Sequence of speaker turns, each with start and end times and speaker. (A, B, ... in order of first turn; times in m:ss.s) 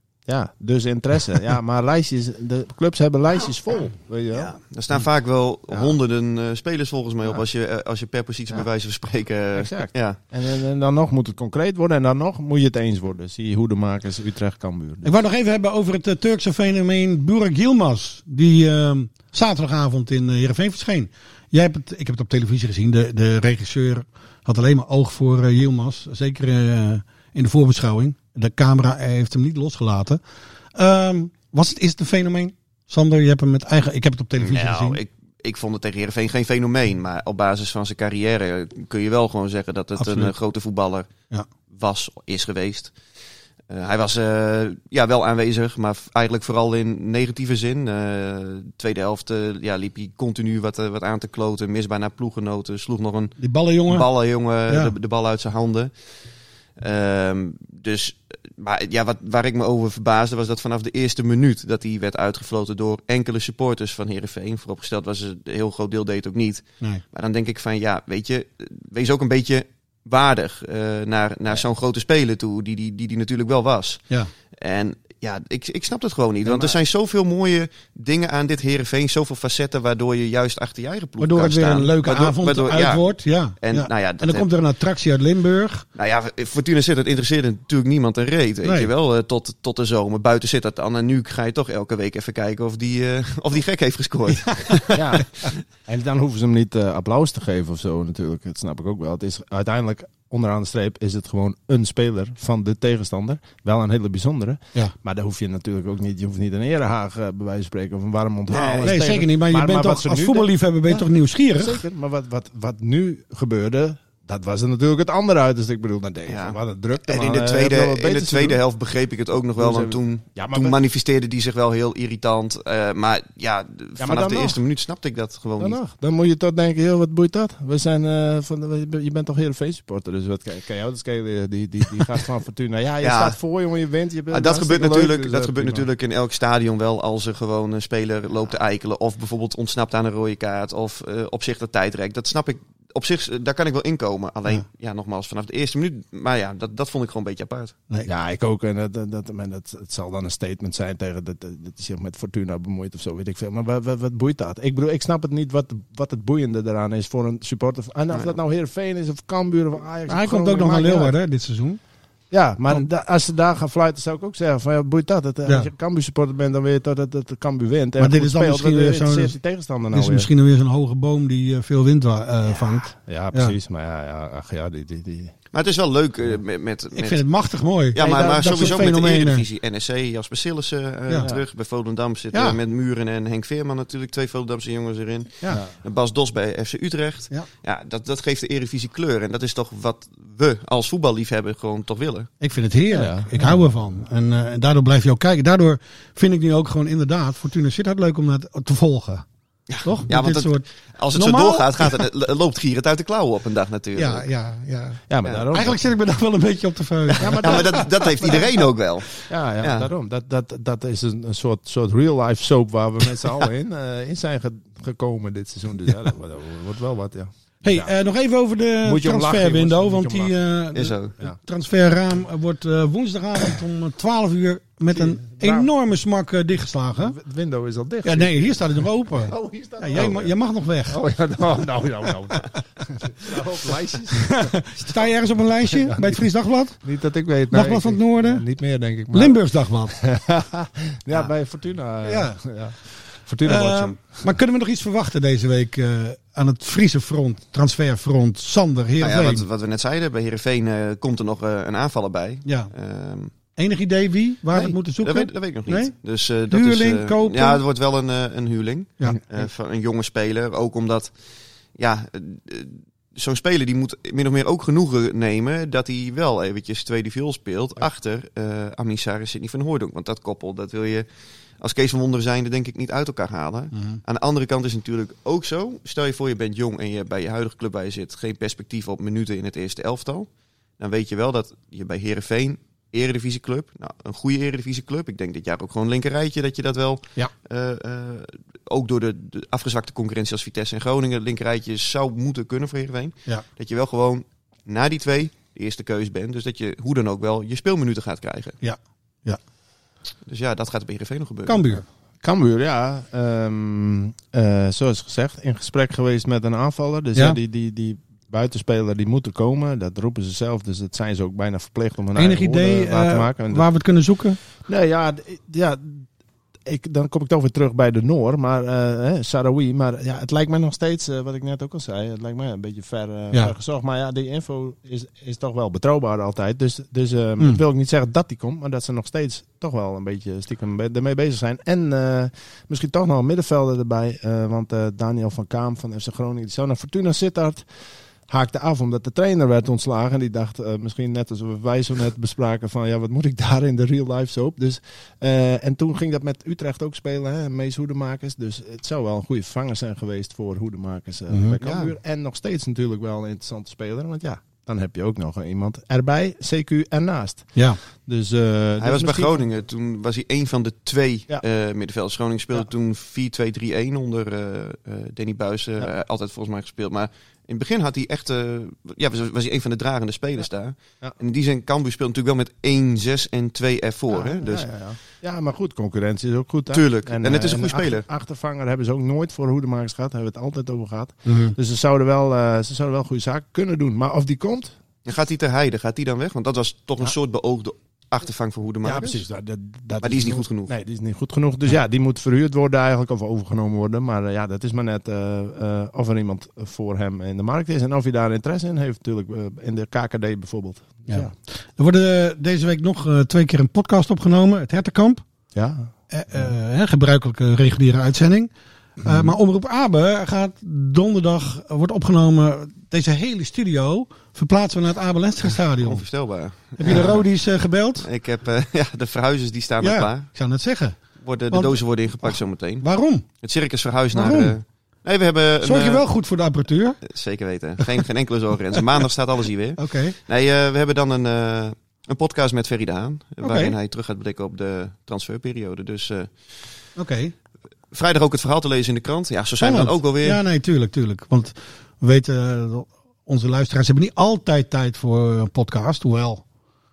0:00.3-0:04.6 A
0:04.3-0:10.2 B
0:05.7-0:06.0 A
0:09.5-0:15.1 A
0:15.0-0:30.2 C
0:30.7-0:35.0 C
0:34.4-0:41.1 B
0:40.0-0:40.3 C
0:41.7-0:43.2 B
0:43.7-0:56.3 B
0:53.4-0:54.1 C
0:54.7-0:54.9 C
0:56.8-1:24.5 B
1:21.2-1:25.9 C
1:26.0-1:35.5 B
1:28.6-1:28.9 C
1:34.9-1:58.6 A
1:48.5-1:49.0 B
1:48.8-1:51.8 C
1:56.3-2:05.8 B
1:59.6-2:00.8 A
2:04.0-2:04.6 A
2:05.6-2:15.9 A
2:13.0-2:13.4 B
2:14.3-2:27.8 B
2:28.1-2:41.1 A
2:40.1-2:41.8 C
2:42.3-2:50.3 A
2:48.0-2:49.4 C
2:49.9-2:53.6 C
2:53.0-2:55.4 A
2:55.5-2:57.3 B
2:56.9-2:59.4 C
2:57.9-3:12.3 B
2:58.0-2:58.9 A
3:01.2-3:01.4 A
3:02.3-3:02.6 C
3:12.4-3:19.3 C
3:12.9-3:13.7 A
3:19.7-3:24.3 B
3:19.8-3:21.9 C
3:24.0-3:27.9 C
3:25.1-3:25.8 A
3:27.2-3:28.4 A
3:27.4-3:29.9 B
3:29.2-3:38.0 A
3:37.6-3:47.2 C
3:38.8-3:40.3 A
3:40.8-3:41.1 B
3:44.9-3:45.7 A
3:47.0-3:50.4 A
3:48.0-3:51.0 C
3:50.9-3:55.1 A
3:54.3-3:56.8 C
3:55.6-3:56.2 A
3:56.8-4:04.3 A
3:57.5-3:58.4 C
3:59.1-4:00.0 C
4:02.0-4:02.9 C
4:03.4-4:09.4 C
4:09.0-4:13.3 B
4:12.4-4:12.7 C
4:13.5-4:15.9 C
4:14.5-4:31.1 B
4:16.5-4:17.6 C
4:19.1-4:19.4 A
4:31.6-4:58.6 B
4:33.7-4:34.0 C
4:58.6-4:59.4 C
5:00.3-5:01.8 B
5:01.5-5:01.8 C
5:02.2-5:13.9 A
5:12.2-5:14.4 C
5:14.6-5:16.1 A
5:16.6-5:37.6 A
5:38.3-5:59.4 A
5:51.3-5:51.6 C
5:51.6-5:51.9 B
5:58.8-6:14.7 B
6:14.1-6:24.8 A
6:16.7-6:18.1 B
6:21.3-6:21.6 C
6:25.1-6:29.2 B
6:28.8-6:41.3 A
6:30.0-6:30.7 B
6:41.1-6:45.2 C
6:45.5-6:46.5 A
6:46.1-6:56.0 C
6:55.8-6:57.2 B
6:56.8-6:58.1 C
6:58.0-7:00.5 B
6:59.8-7:03.2 C
7:01.2-7:06.1 B
7:04.1-7:04.6 C
7:05.6-7:07.0 C
7:07.0-7:16.9 B
7:09.8-7:10.2 C
7:13.4-7:13.8 C
7:17.0-7:17.3 C
7:17.9-7:20.4 B
7:19.6-7:26.4 C